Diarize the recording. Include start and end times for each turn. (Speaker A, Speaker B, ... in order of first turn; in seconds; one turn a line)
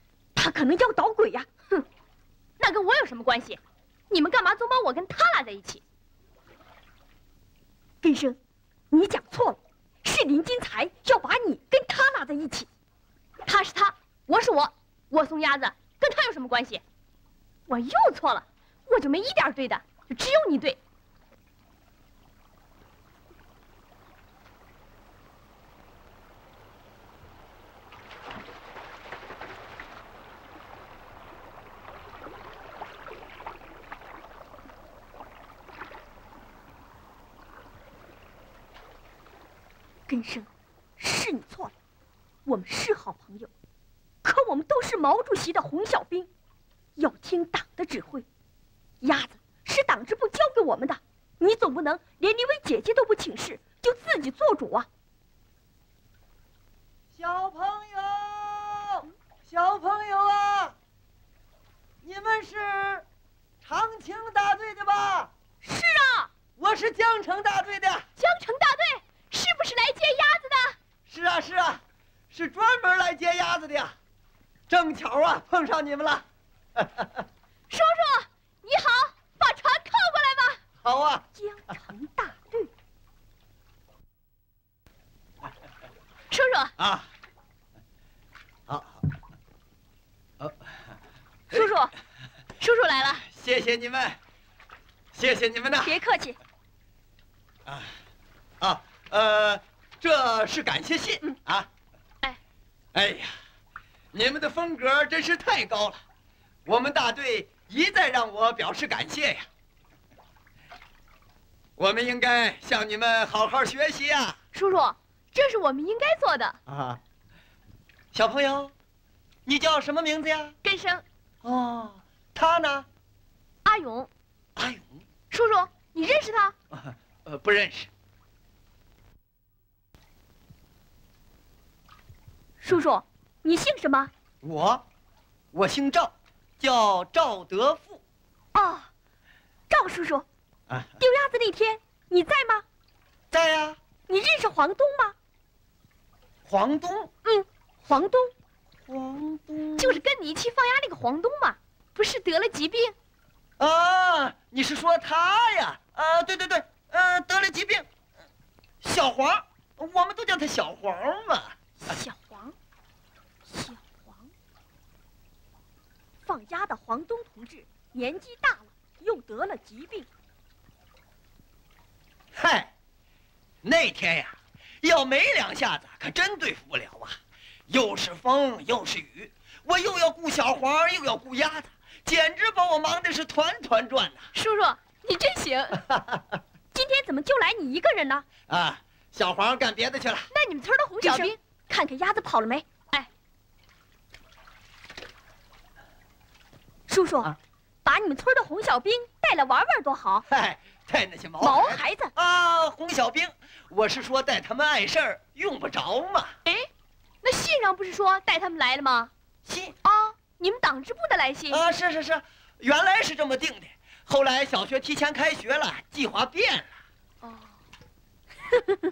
Speaker A: 0.3-1.5
Speaker B: 2.6-3.6
Speaker B: 4.1-5.8
Speaker A: 8.0-8.4
Speaker A: 8.9-12.7
Speaker B: 13.4-16.8
Speaker B: 17.7-20.8
Speaker A: 40.1-41.7
Speaker A: 42.5-43.5
Speaker A: 44.2-46.3
Speaker A: 47.0-48.2
Speaker A: 49.0-54.9
Speaker C: 57.1-60.8
Speaker C: 62.0-63.0
Speaker C: 63.6-65.3
Speaker B: 65.6-66.3
Speaker C: 66.6-68.1
Speaker B: 68.2-70.7
Speaker C: 71.1-74.0
Speaker C: 74.7-76.2
Speaker C: 76.8-77.2
Speaker B: 77.7-80.6
Speaker C: 80.8-81.3
Speaker A: 81.3-82.7
Speaker B: 86.3-86.7
Speaker C: 86.8-87.1
Speaker C: 88.7-89.0
Speaker C: 90.4-90.7
Speaker A: 91.5-91.8
Speaker B: 92.6-93.2
Speaker C: 93.2-94.2
Speaker C: 95.1-96.0
Speaker A: 95.8-96.3
Speaker C: 97.7-97.9
Speaker C: 98.6-101.7
Speaker C: 102.9-103.3
Speaker C: 104.1-106.0
Speaker C: 106.7-109.5
Speaker C: 111.8-114.4
Speaker B: 114.5-116.6
Speaker C: 116.7-117.0
Speaker C: 118.1-118.7
Speaker C: 119.5-120.5
Speaker B: 120.6-121.0
Speaker C: 121.4-122.8
Speaker B: 123.7-124.1
Speaker C: 124.5-125.0
Speaker B: 125.3-126.5
Speaker C: 126.7-127.9
Speaker A: 132.6-134.1
Speaker C: 134.4-134.8
Speaker C: 135.5-138.0
Speaker A: 138.5-138.9
Speaker A: 139.7-140.2
Speaker A: 141.0-142.6
Speaker C: 143.3-143.8
Speaker A: 144.1-145.1
Speaker C: 146.4-147.1
Speaker A: 147.2-148.3
Speaker C: 148.9-150.0
Speaker A: 149.8-151.5
Speaker B: 151.9-152.9
Speaker C: 153.6-157.8
Speaker C: 158.8-162.0
Speaker A: 161.8-162.5
Speaker A: 163.4-164.3
Speaker A: 166.2-170.1
Speaker C: 172.3-172.7
Speaker C: 173.6-184.3
Speaker B: 184.3-185.8
Speaker C: 185.9-186.2
Speaker A: 186.7-188.2
Speaker C: 188.5-190.3
Speaker A: 190.3-192.8
Speaker B: 190.9-191.3
Speaker A: 196.9-197.3
Speaker A: 197.8-200.2
Speaker C: 200.3-206.3
Speaker A: 201.4-202.1
Speaker B: 207.2-209.1
Speaker C: 209.4-209.8
Speaker B: 209.9-211.7
Speaker C: 211.5-216.7